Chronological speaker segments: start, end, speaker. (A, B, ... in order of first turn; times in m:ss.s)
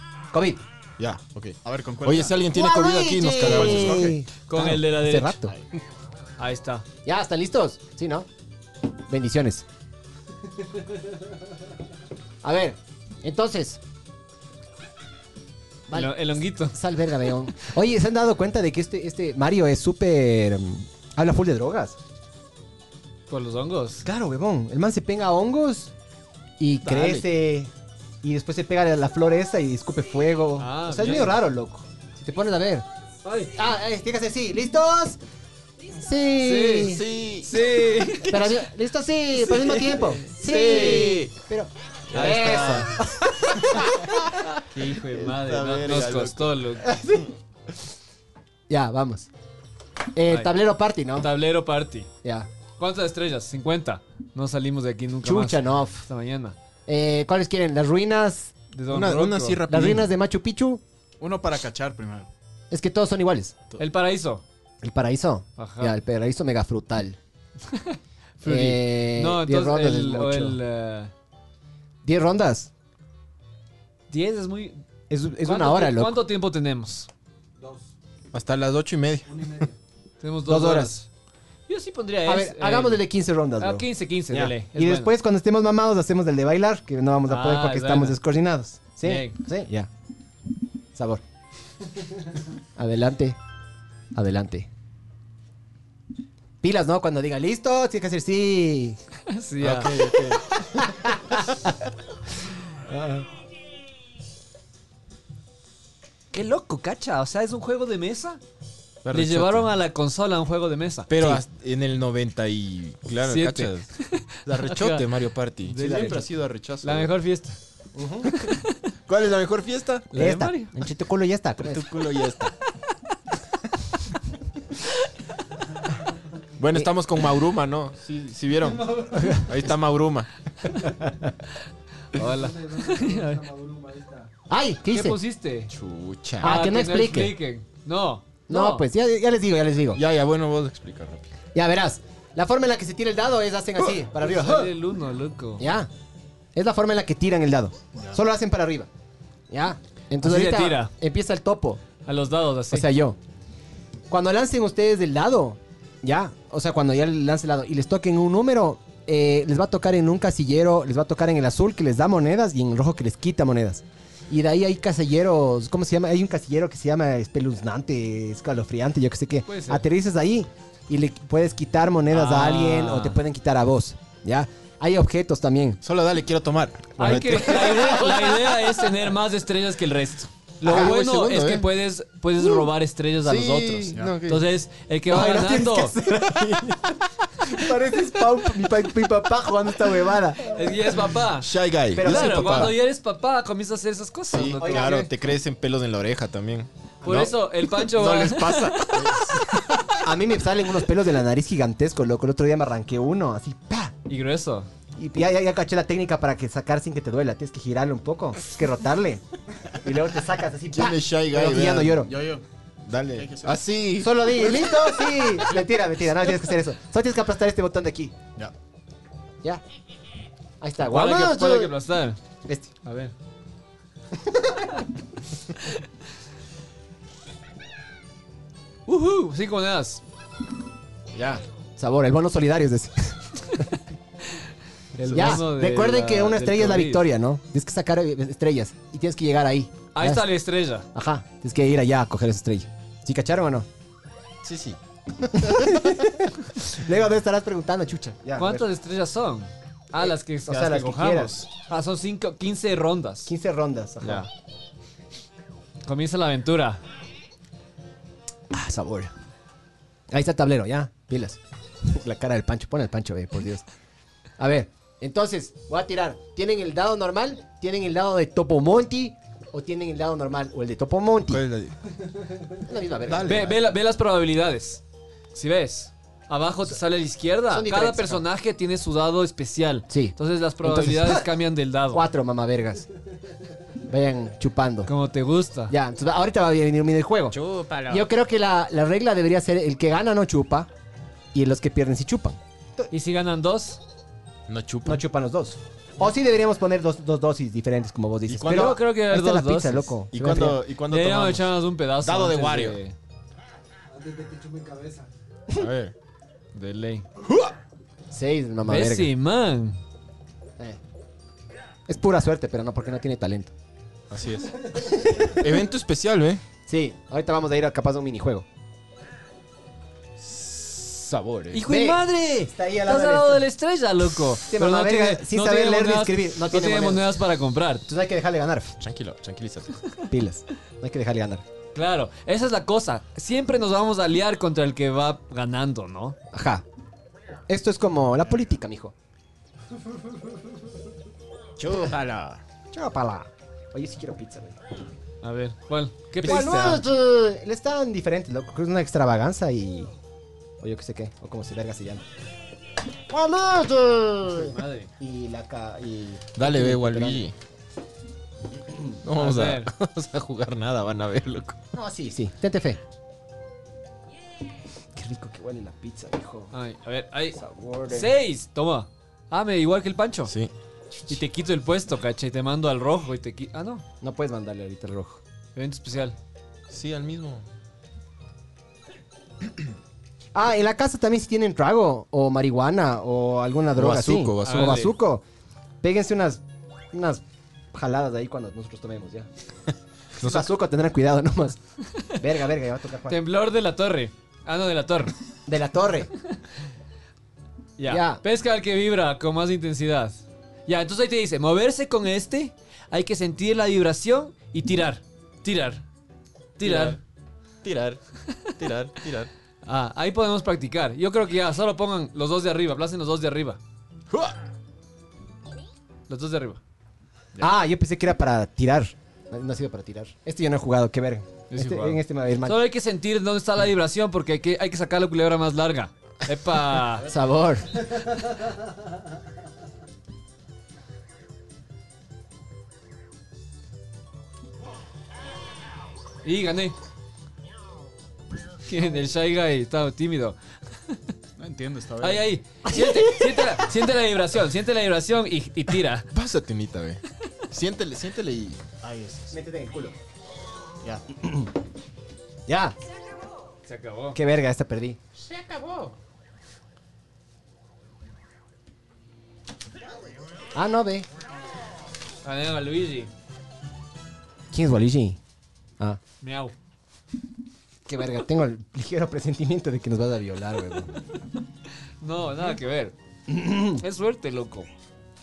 0:00.3-0:00.6 A
0:01.0-0:04.1 B
0:01.6-0:02.4 C
0:02.5-0:05.5 A
0:03.3-0:04.2 C
0:04.5-0:05.4 D
0:06.4-0:06.8 D
0:07.0-0:08.3 A
0:09.1-0:09.6 A
0:12.4-0:13.8 A
0:15.9-0:16.2 A
0:15.9-0:16.8 D
0:16.7-0:22.0 A
0:23.3-0:24.0 D
0:24.0-0:25.9 A
0:26.6-0:27.7 A
0:26.8-0:27.2 B
0:28.2-0:32.8 A
0:30.6-0:31.4 D
0:33.2-0:33.6 D
0:33.5-0:35.2 A
0:35.9-0:37.0 A
0:36.4-0:38.6 D
0:36.8-0:37.6 B
0:38.2-0:44.0 A
0:39.4-0:41.2 D
0:40.4-0:41.3 B
0:42.1-0:43.0 D
0:44.4-0:46.9 D
0:45.0-0:47.0 B
0:46.9-0:47.2 A
0:48.7-0:49.3 A
0:50.1-0:51.3 A
0:50.3-0:50.5 D
0:51.2-0:52.1 D
0:52.2-0:52.5 A
0:52.8-0:56.6 D
0:55.2-0:56.0 A
0:56.9-0:58.5 A
0:58.7-0:59.6 D
0:58.9-1:00.1 B
0:59.7-1:00.8 A
1:01.2-1:02.3 C
1:02.7-1:03.5 A
1:03.8-1:04.4 D
1:04.8-1:07.2 A
1:05.6-1:06.0 D
1:07.7-1:11.1 D
1:08.4-1:10.6 A
1:12.0-1:12.7 A
1:14.1-1:14.8 D
1:15.1-1:16.2 A
1:15.4-1:17.1 D
1:17.6-1:17.9 E
1:18.3-1:19.3 B
1:19.2-1:19.8 E
1:20.2-1:21.1 D
1:20.4-1:21.0 A
1:21.7-1:23.0 D
1:22.2-1:29.9 A
1:23.6-1:25.1 D
1:27.3-1:28.2 D
1:29.0-1:29.4 D
1:30.9-1:31.2 A
1:32.8-1:33.4 A
1:34.1-1:34.7 A
1:36.6-1:39.0 A
1:39.3-1:40.1 D
1:39.6-1:40.8 B
1:40.8-1:41.7 A
1:42.9-1:43.3 A
1:46.3-1:48.4 D
1:49.0-1:49.7 B
1:49.1-1:51.4 D
1:51.1-1:53.9 B
1:53.2-1:55.1 D
1:54.4-1:57.1 B
1:55.6-1:56.2 D
1:56.8-1:57.6 D
1:57.9-1:58.3 A
1:58.5-1:58.7 D
1:59.1-2:00.1 B
2:00.1-2:00.7 D
2:00.1-2:01.9 A
2:01.6-2:02.5 B
2:06.6-2:10.7 B
2:08.6-2:09.1 E
2:09.1-2:09.4 A
2:10.8-2:11.1 A
2:12.1-2:13.4 D
2:12.2-2:14.3 E
2:14.5-2:15.2 A
2:14.9-2:15.7 D
2:15.7-2:16.6 B
2:16.4-2:17.3 A
2:16.4-2:18.9 D
2:18.5-2:20.0 A
2:19.9-2:21.3 B
2:21.5-2:24.7 A
2:24.2-2:25.6 D
2:25.6-2:25.9 A
2:26.5-2:28.9 A
2:27.9-2:28.2 C
2:29.5-2:31.8 A
2:30.2-2:30.9 D
2:32.0-2:32.9 D
2:32.7-2:33.2 A
2:34.1-2:55.8 A
2:49.4-2:49.8 D
2:52.1-2:53.2 D
2:55.8-2:58.3 B
2:57.0-3:06.0 D
2:57.0-2:58.3 A
3:00.6-3:01.7 B
3:00.6-3:00.9 A
3:03.2-3:04.5 B
3:05.1-3:10.6 A
3:10.5-3:15.1 D
3:11.4-3:12.8 B
3:11.9-3:12.8 A
3:14.3-3:20.0 B
3:14.5-3:15.0 A
3:17.0-3:19.2 D
3:20.0-3:23.9 A
3:24.1-3:24.7 D
3:25.0-3:32.1 A
3:30.7-3:32.1 B
3:31.7-3:32.4 C
3:32.8-3:34.8 B
3:33.1-3:33.6 C
3:34.0-3:38.1 A
3:40.6-3:41.8 A
3:40.9-3:42.2 D
3:42.8-3:43.1 D
3:48.8-3:50.0 D
3:51.1-3:53.7 A
3:55.0-3:57.1 D
3:55.0-3:55.4 B
3:55.1-4:00.3 A
3:59.9-4:00.8 D
4:00.9-4:03.7 A
4:04.4-4:06.0 B
4:05.4-4:08.6 A
4:08.4-4:13.3 D
4:10.0-4:11.4 A
4:13.2-4:14.3 A
4:14.0-4:14.3 B
4:15.8-4:16.8 D
4:18.5-4:19.1 A
4:20.1-4:23.6 A
4:24.4-4:31.4 A
4:31.3-4:31.8 B
4:32.7-4:33.6 A
4:33.0-4:33.6 B
4:33.2-4:34.8 D
4:35.3-4:42.0 D
4:37.5-4:38.2 A
4:39.9-4:41.2 A
4:41.9-4:42.9 A
4:43.9-4:44.9 A
4:44.8-4:45.7 D
4:45.7-4:50.7 A
4:47.3-4:48.1 B
4:51.3-4:52.9 A
4:52.9-4:53.8 D
4:54.5-4:55.0 B
4:54.8-5:00.6 A
4:58.3-4:58.8 B
4:58.4-4:59.9 D
5:00.1-5:02.8 B
5:00.9-5:03.0 D
5:03.9-5:05.1 E
5:05.5-5:05.9 B
5:06.5-5:07.0 D
5:07.2-5:07.5 B
5:08.1-5:09.1 A
5:08.6-5:09.8 D
5:11.9-5:13.5 A
5:14.1-5:16.4 B
5:14.8-5:15.4 A
5:16.7-5:18.4 A
5:20.2-5:21.6 B
5:21.5-5:27.8 D
5:21.6-5:23.5 A
5:24.4-5:27.2 A
5:27.9-5:28.8 A
5:28.8-5:29.8 B
5:30.1-5:31.4 A
5:31.7-5:36.2 D
5:36.3-5:36.6 A
5:37.5-5:38.9 A
5:41.6-5:42.4 B
5:42.7-5:44.6 A
5:45.2-5:46.8 D
5:46.2-5:49.9 A
5:50.6-5:52.0 A
5:53.1-5:54.5 B
5:53.7-5:54.3 A
5:54.3-5:54.9 D
5:55.0-5:57.2 A
5:56.3-5:57.3 B
5:59.0-6:01.6 B
5:59.1-5:59.7 D
6:01.7-6:02.8 A
6:04.9-6:06.5 A
6:06.5-6:10.3 D
6:07.3-6:08.1 A
6:10.3-6:10.5 B
6:11.1-6:13.8 D
6:14.0-6:15.2 A
6:15.5-6:16.2 D
6:16.7-6:17.4 B
6:20.3-6:25.2 A
6:23.7-6:24.9 B
6:24.4-6:24.9 D
6:25.8-6:27.2 A
6:27.7-6:29.3 A
6:30.1-6:31.6 A
6:30.2-6:30.5 B
6:32.2-6:33.2 A
6:33.1-6:35.1 D
6:35.4-6:36.1 A
6:37.8-6:45.8 D
6:37.9-6:38.2 A
6:46.6-6:47.0 D
6:46.6-6:47.0 B
6:47.6-6:48.0 B
6:48.6-6:49.3 B
6:49.6-6:53.6 D
6:56.1-6:56.6 D
6:57.4-7:02.6 A
7:01.5-7:07.1 D
7:07.0-7:08.0 A
7:16.2-7:16.8 D
7:18.6-7:21.0 D
7:21.4-7:22.3 C
7:22.0-7:26.1 D
7:22.6-7:23.6 A
7:26.1-7:28.6 B
7:28.8-7:29.4 C
7:29.3-7:29.9 A
7:31.1-7:31.5 A
7:32.5-7:32.8 A
7:33.6-7:34.2 D
7:34.1-7:35.0 A
7:35.2-7:35.9 B
7:40.5-7:41.1 A
7:42.2-7:43.1 D
7:44.5-7:45.2 A
7:46.2-7:46.5 D
7:47.8-7:50.9 A
7:52.0-7:52.9 D
7:53.3-7:53.8 A
7:53.8-7:54.7 D